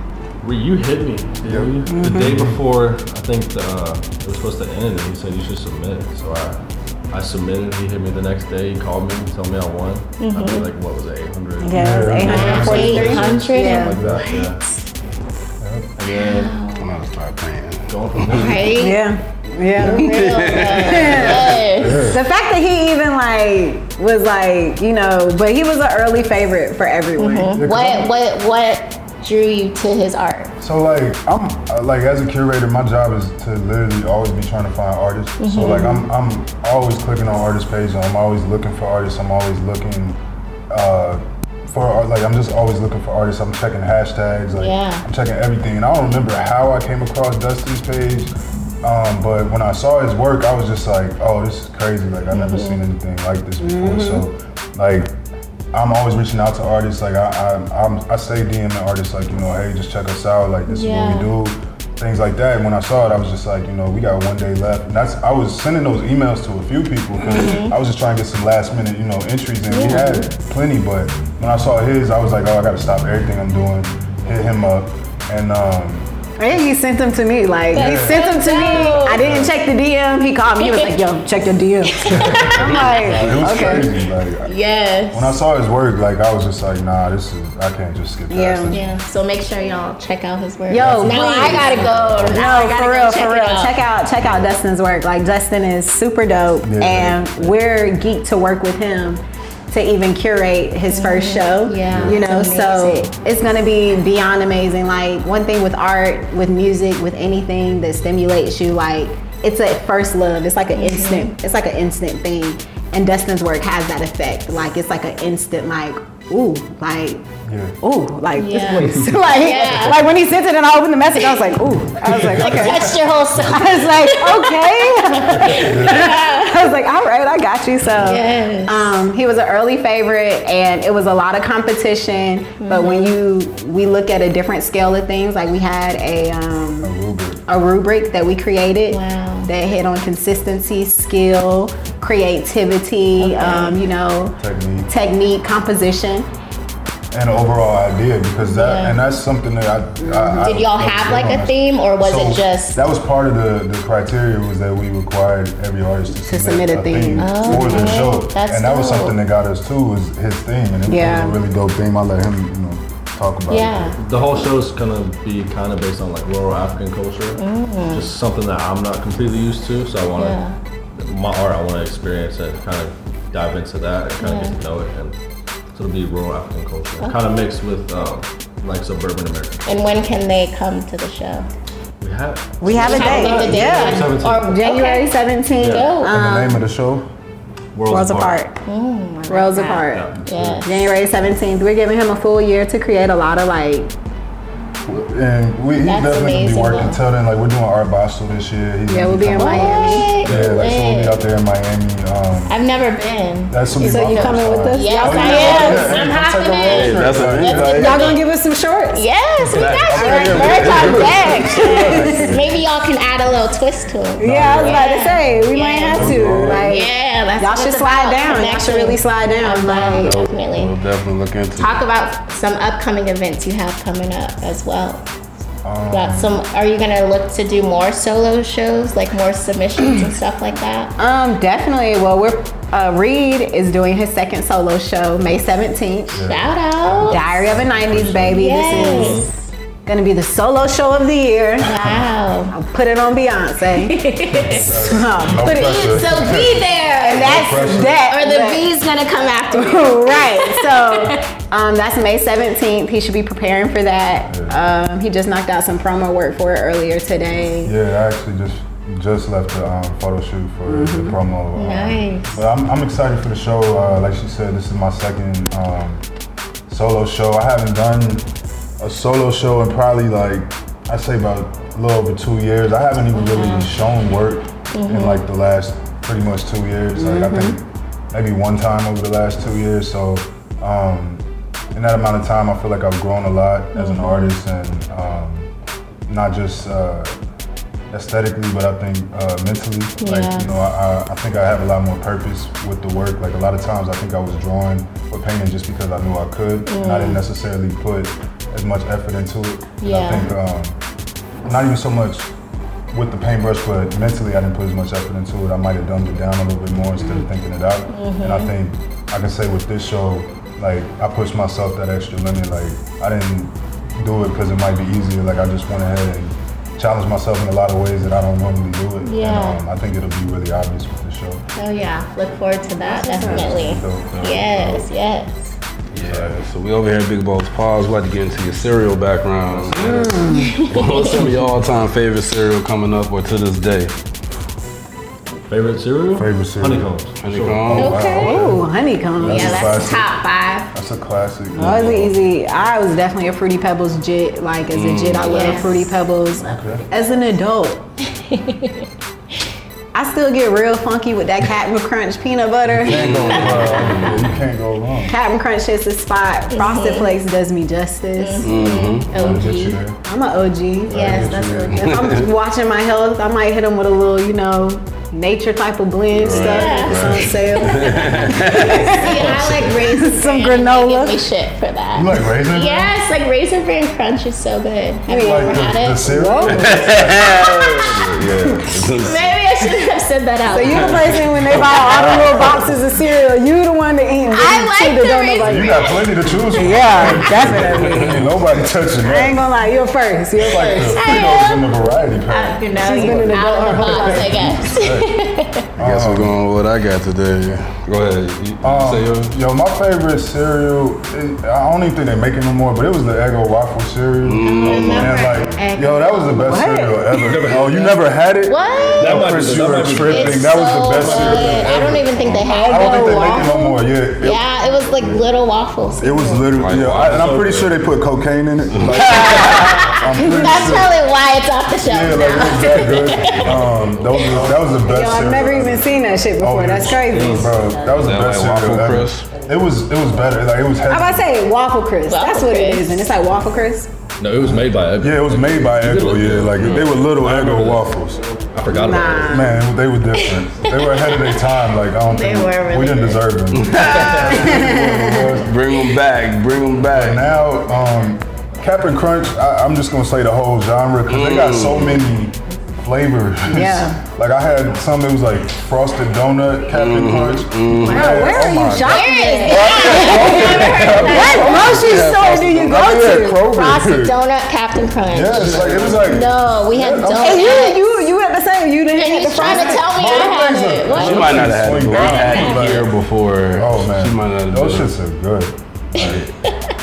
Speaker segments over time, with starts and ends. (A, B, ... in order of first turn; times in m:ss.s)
0:00.4-0:06.6 A
0:01.4-0:02.6 B
0:01.9-0:02.3 C
0:07.1-0:14.6 A
0:10.2-0:10.7 D
0:11.6-0:14.0 C
0:11.7-0:13.3 B
0:12.2-0:14.6 D
0:13.9-0:14.2 B
0:15.6-0:15.9 B
0:16.0-0:16.6 A
0:16.1-0:16.9 D
0:16.8-0:18.6 E
0:17.9-0:18.8 A
0:18.3-0:19.1 D
0:18.7-0:27.6 C
0:19.8-0:22.1 D
0:19.8-0:21.7 E
0:21.8-0:22.2 B
0:27.2-0:30.5 D
0:27.5-0:28.1 B
0:30.6-0:40.2 B
0:35.4-0:36.0 D
0:35.7-0:35.9 C
0:40.7-0:48.3 B
0:44.6-0:45.0 D
0:48.8-0:55.2 B
0:52.3-0:52.8 D
0:53.6-0:54.3 C
0:55.7-1:16.1 B
1:00.7-1:01.3 D
1:07.3-1:07.7 D
1:09.7-1:10.1 D
1:09.8-1:10.3 C
1:16.4-1:23.9 C
1:17.7-1:19.2 D
1:17.7-1:19.6 B
1:20.6-1:21.0 D
1:21.9-1:22.9 D
1:22.1-1:24.5 B
1:23.1-1:23.4 E
1:24.5-1:25.4 D
1:25.1-1:28.8 B
1:28.3-1:28.8 C
1:28.7-1:33.8 D
1:30.7-1:57.3 C
1:30.8-1:32.4 B
1:36.6-1:37.6 B
1:40.9-1:43.1 D
1:41.9-1:42.2 B
1:50.8-1:51.3 D
1:57.4-1:57.8 B
1:57.8-2:16.9 C
1:58.4-2:00.0 D
1:58.7-1:59.5 A
2:01.2-2:01.5 D
2:02.0-2:06.7 D
2:02.5-2:02.9 B
2:05.5-2:06.2 B
2:08.0-2:09.0 D
2:12.6-2:13.2 D
2:16.8-2:17.4 B
2:17.5-2:24.4 C
2:18.9-2:19.5 D
2:23.2-2:23.8 D
2:24.4-2:24.9 B
2:24.9-2:26.3 C
2:27.1-2:44.0 B
2:28.4-2:29.0 D
2:30.0-2:30.5 C
2:30.4-2:32.8 D
2:36.3-2:38.1 C
2:37.2-2:39.2 D
2:40.9-2:41.4 C
2:43.5-2:44.0 D
2:44.0-2:50.4 A
2:47.4-2:48.1 D
2:50.2-2:50.6 D
2:51.0-2:55.2 A
2:54.2-2:54.6 D
2:55.8-2:59.8 A
2:57.0-2:57.5 D
2:59.7-3:01.5 D
3:02.0-3:04.5 A
3:02.6-3:06.6 C
3:02.7-3:06.2 D
3:05.6-3:06.0 A
3:06.1-3:07.1 B
3:07.8-3:08.4 A
3:07.9-3:08.6 C
3:08.6-3:10.9 D
3:09.3-3:10.1 C
3:09.9-3:10.7 A
3:10.6-3:13.9 C
3:14.9-3:22.6 B
3:15.8-3:17.0 D
3:18.9-3:20.1 C
3:19.3-3:21.2 D
3:20.2-3:20.5 A
3:22.5-3:28.2 D
3:23.5-3:28.0 B
3:23.8-3:26.1 C
3:26.6-3:28.2 E
3:27.6-3:29.1 C
3:28.9-3:40.7 D
3:29.4-3:32.1 E
3:29.6-3:30.5 C
3:29.9-3:32.5 B
3:31.5-3:32.3 C
3:34.2-3:40.2 C
3:34.2-3:34.8 B
3:35.9-3:36.7 E
3:36.0-3:36.6 B
3:39.7-3:41.8 E
3:41.6-3:45.0 D
3:45.6-3:46.4 B
3:45.9-3:50.9 D
3:51.0-3:56.3 C
3:56.1-3:58.9 B
3:56.2-3:57.3 D
3:57.0-3:59.3 C
3:58.3-3:59.3 D
3:58.8-3:59.3 A
3:59.9-4:01.8 C
4:01.6-4:02.5 D
4:02.5-4:04.1 C
4:03.8-4:04.9 D
4:04.4-4:08.0 B
4:04.7-4:06.2 C
4:05.6-4:11.2 D
4:07.0-4:08.7 C
4:09.5-4:17.7 C
4:14.3-4:14.6 B
4:17.6-4:26.0 B
4:20.7-4:21.2 C
4:21.6-4:22.4 D
4:26.7-4:28.3 B
4:28.8-4:45.5 B
4:33.2-4:33.7 D
4:34.7-4:35.2 D
4:37.0-4:37.6 C
4:43.8-4:44.3 D
4:46.1-4:47.1 B
4:47.9-5:00.8 B
4:50.0-4:50.5 D
4:56.7-4:57.2 D
4:59.8-5:00.3 D
5:01.4-5:02.3 B
5:02.9-5:21.4 B
5:07.9-5:08.5 D
5:19.0-5:19.6 D
5:21.6-5:25.6 D
5:22.8-5:23.5 C
5:23.2-5:24.6 B
5:25.9-5:33.9 E
5:26.0-5:26.3 A
5:29.5-5:30.2 A
5:29.8-5:30.6 C
5:30.3-5:31.1 D
5:31.0-5:31.5 A
5:35.5-5:37.8 A
5:36.2-5:36.9 B
5:37.2-5:38.2 E
5:37.7-5:40.1 B
5:37.8-5:38.4 D
5:37.8-5:39.8 C
5:39.2-5:40.7 D
5:40.7-5:42.1 B
5:41.6-5:47.9 C
5:44.7-5:45.6 E
5:45.2-5:46.0 D
5:46.5-5:46.8 B
5:48.3-5:48.9 D
5:49.9-5:53.3 C
5:52.7-5:55.2 B
5:52.8-5:54.4 E
5:55.1-5:58.6 C
5:56.5-5:57.2 D
5:58.2-5:59.8 D
5:58.4-5:59.4 E
5:59.1-6:00.0 B
6:00.0-6:11.2 C
6:00.9-6:02.0 D
6:00.9-6:02.1 B
6:01.8-6:02.3 E
6:06.2-6:09.2 E
6:06.3-6:07.3 B
6:06.3-6:16.2 D
6:09.1-6:09.7 A
6:11.9-6:13.0 B
6:15.1-6:17.1 C
6:15.1-6:17.4 B
6:16.5-6:19.3 E
6:19.0-6:22.4 D
6:20.5-6:28.3 C
6:20.7-6:22.7 E
6:21.8-6:22.7 B
6:24.3-6:27.2 D
6:25.4-6:29.4 B
6:27.4-6:28.5 E
6:29.0-6:31.0 C
6:30.4-6:35.1 B
6:30.4-6:31.7 D
6:32.3-6:35.7 D
6:32.7-6:34.5 C
6:35.8-6:36.4 B
6:35.8-6:39.4 E
6:38.6-6:54.4 B
6:44.2-6:45.2 E
6:44.4-6:46.6 D
6:44.7-6:45.1 A
6:46.4-6:47.2 C
6:47.2-6:48.0 A
6:48.4-6:56.5 D
6:49.0-6:51.7 A
6:52.5-6:53.5 C
6:56.0-7:01.0 B
6:56.5-6:57.8 A
6:58.7-6:59.2 E
6:59.0-7:04.4 D
7:00.2-7:00.8 C
7:01.9-7:11.3 B
7:03.3-7:04.6 A
7:04.8-7:07.6 C
7:07.0-7:08.0 A
7:07.9-7:09.3 E
7:10.9-7:13.9 C
7:12.1-7:13.1 D
7:14.2-7:17.9 A
7:15.0-7:18.2 B
7:18.5-7:19.5 A
7:18.7-7:19.6 C
7:19.3-7:25.5 B
7:20.2-7:21.4 D
7:22.1-7:23.2 D
7:23.5-7:27.3 E
7:24.3-7:25.4 C
7:26.9-7:44.2 B
7:31.1-7:32.1 E
7:33.5-7:34.0 C
7:36.7-7:38.4 E
7:37.8-7:43.6 C
7:38.7-7:41.7 D
7:40.1-7:42.9 E
7:43.4-7:48.0 D
7:45.1-7:47.7 B
7:45.4-7:46.0 A
7:47.2-7:49.9 C
7:49.0-7:52.8 D
7:49.4-7:52.9 B
7:50.9-7:54.9 E
7:53.6-7:55.6 B
7:56.0-7:56.3 E
7:56.0-7:56.2 A
7:56.0-7:56.7 D